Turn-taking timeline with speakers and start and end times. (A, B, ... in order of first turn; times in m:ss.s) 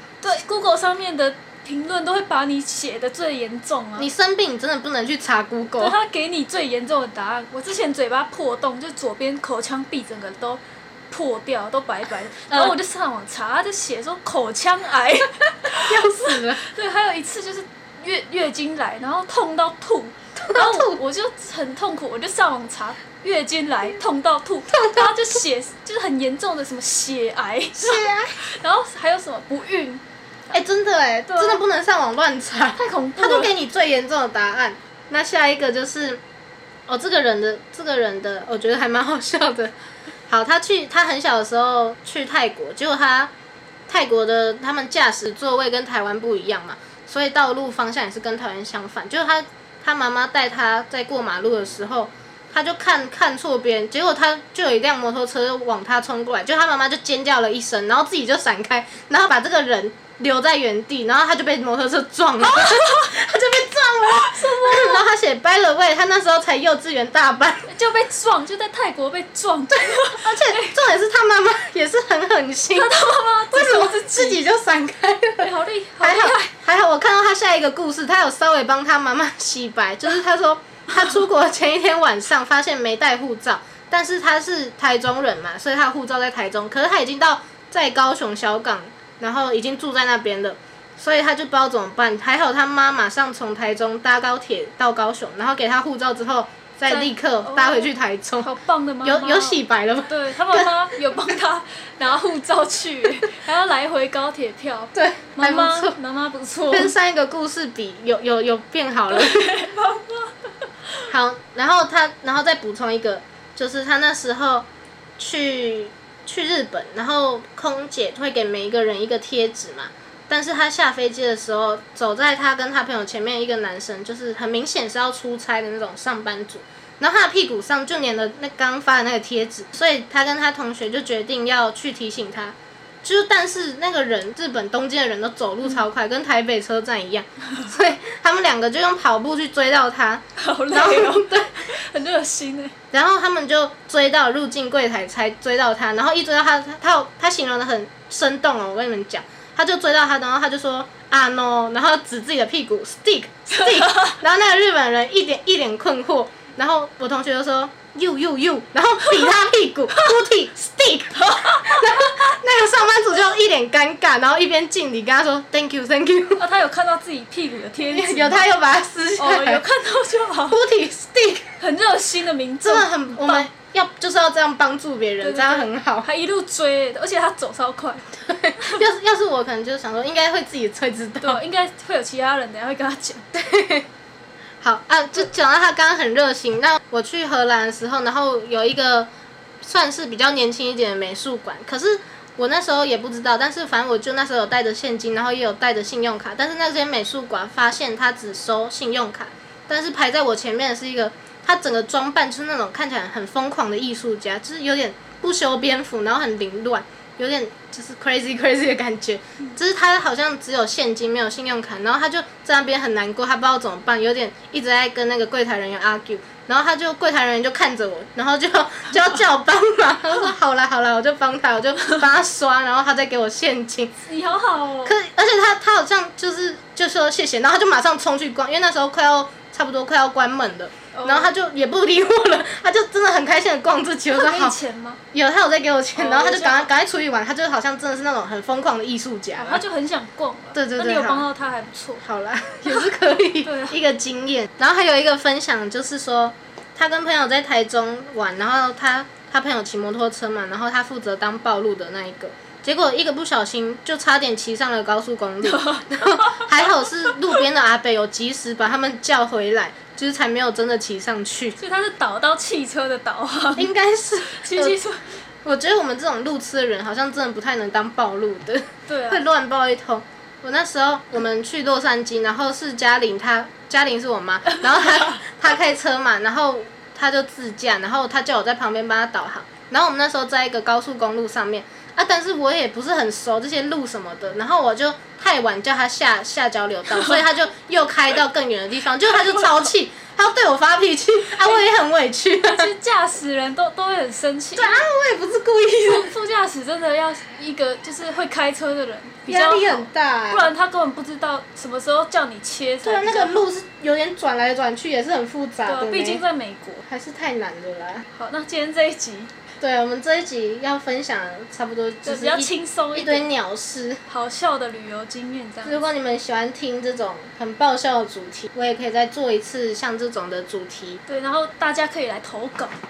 0:00.2-0:04.1 A
0:04.0-0:06.0 B
0:05.8-0:30.0 A
0:12.5-0:12.8 B
0:15.8-0:16.6 B
0:20.4-0:21.0 B
0:27.8-0:28.4 B
0:30.5-0:36.2 B
0:31.3-0:31.6 A
0:32.8-0:33.5 A
0:36.9-0:39.7 B
0:40.3-0:43.3 B
0:43.9-1:07.7 B
1:02.4-1:03.2 A
1:04.1-1:05.1 A
1:07.7-1:10.8 A
1:09.8-1:12.9 B
1:12.7-1:14.4 A
1:13.5-1:15.5 B
1:15.4-1:16.5 A
1:16.0-1:38.5 B
1:36.9-1:46.9 A
1:39.0-1:40.7 B
1:45.0-1:46.0 B
1:46.7-1:49.6 B
1:49.1-1:50.4 A
1:51.1-1:54.7 B
1:55.2-2:21.6 B
2:20.4-2:22.7 A
2:22.9-2:46.4 B
2:33.6-2:34.1 A
2:41.2-2:42.1 A
2:46.4-2:48.5 A
2:47.9-2:49.6 B
2:49.2-2:50.6 A
2:50.5-2:51.5 B
2:51.6-2:53.5 A
2:52.6-2:56.1 B
2:55.2-2:58.8 A
2:58.3-3:01.4 B
3:01.2-3:03.3 A
3:03.3-3:03.9 B
3:04.6-3:09.1 B
3:09.6-3:44.0 B
3:44.1-3:45.0 A
3:44.8-3:54.6 B
3:50.9-3:51.3 A
3:54.1-3:55.0 A
3:55.1-3:59.6 B
3:56.0-3:56.7 A
3:59.4-4:02.0 A
4:00.6-4:01.2 B
4:02.0-4:21.6 B
4:03.4-4:03.8 A
4:15.4-4:16.5 A
4:21.6-4:23.7 A
4:23.6-4:24.8 B
4:24.3-4:25.0 A
4:25.4-4:52.7 B
4:28.9-4:29.2 A
4:34.6-4:35.2 A
4:52.4-4:54.8 A
4:54.6-4:56.1 B
4:55.9-5:03.5 A
4:59.3-5:00.5 B
5:02.8-5:06.2 B
5:05.6-5:06.8 A
5:06.9-5:08.1 B
5:08.1-5:09.4 A
5:09.6-5:14.0 B
5:12.0-5:13.3 A
5:14.1-5:15.8 A
5:15.6-5:21.0 B
5:21.1-5:22.7 A